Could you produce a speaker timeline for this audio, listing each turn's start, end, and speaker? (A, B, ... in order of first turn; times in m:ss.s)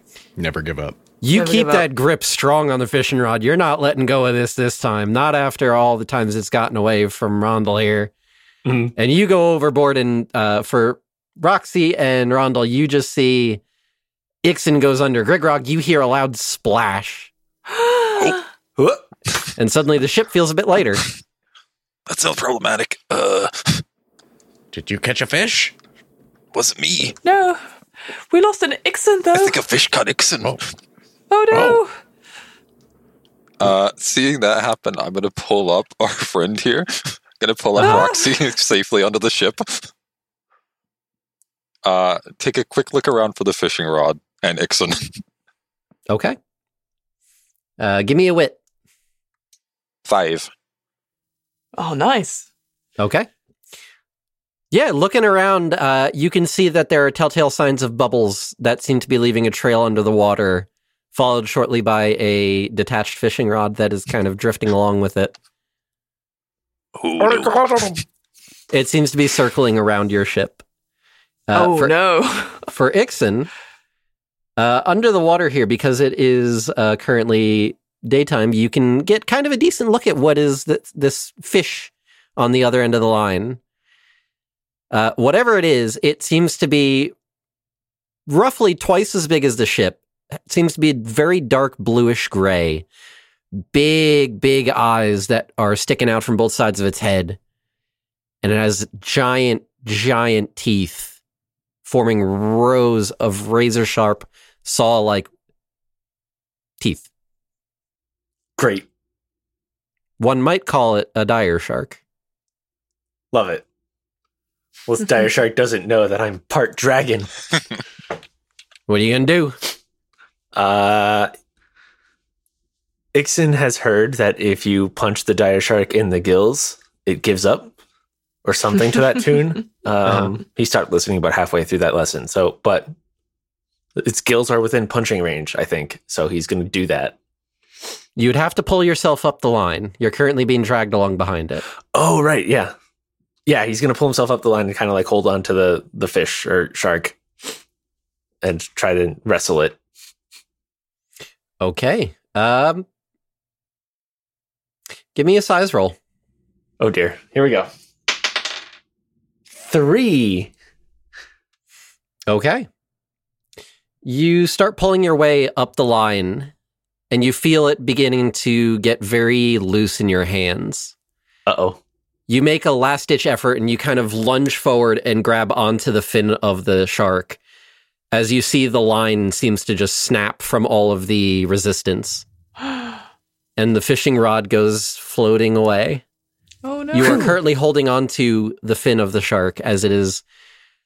0:00.4-0:01.0 A
0:01.2-0:08.1 B
0:01.3-0:01.8 C
0:08.6-0:08.9 D
0:09.0-0:13.6 B
0:14.4-0:17.3 B
0:17.7-0:18.4 C
0:18.8-0:19.0 D
0:19.6-0:21.0 B
0:22.1-0:23.8 E
0:24.7-0:25.7 A
0:26.5-0:27.2 E
0:27.2-0:27.6 C
0:28.3-0:29.6 C
0:29.3-0:30.6 E
0:31.3-0:32.0 C
0:31.5-0:31.8 A
0:33.6-0:39.9 F
0:37.8-0:38.3 C
0:37.8-0:38.1 B
0:41.8-0:45.1 F
0:46.1-0:46.4 B
0:47.8-0:48.6 B
0:50.0-0:50.5 F
0:51.8-0:52.5 C
0:53.0-0:53.3 B
0:54.7-1:05.3 B
1:07.0-1:08.0 E
1:07.2-1:08.0 A
1:08.7-1:10.6 B
1:11.5-1:11.9 B
1:11.5-1:12.6 C
1:12.7-1:13.5 B
1:14.6-1:23.6 B
1:24.9-1:27.1 B
1:28.3-1:32.8 B
1:33.7-1:37.4 B
1:38.4-1:41.2 B
1:41.8-1:45.3 B
1:46.8-1:47.0 B
1:48.6-1:48.9 D
1:50.2-1:52.0 B
1:53.3-1:53.6 D
1:54.9-1:57.3 D
1:58.9-1:59.6 B
2:00.5-2:01.3 D
2:03.1-2:07.7 D
2:08.4-2:12.9 D
2:10.0-2:10.3 B
2:14.0-2:17.1 D
2:18.2-2:21.6 B
2:21.9-2:22.7 D
2:23.4-2:27.2 D
2:28.4-2:29.8 D
2:31.6-2:32.8 B
2:35.1-2:36.0 B
2:36.8-2:37.7 D
2:39.6-2:40.5 D
2:42.3-2:42.7 B
2:44.0-2:46.5 B
2:47.1-2:50.9 B
2:51.5-2:51.8 D
2:52.3-2:57.4 B
2:58.1-3:02.2 B
3:02.6-3:02.9 C
3:03.6-3:06.0 B
3:06.6-3:07.4 C
3:06.9-3:10.2 B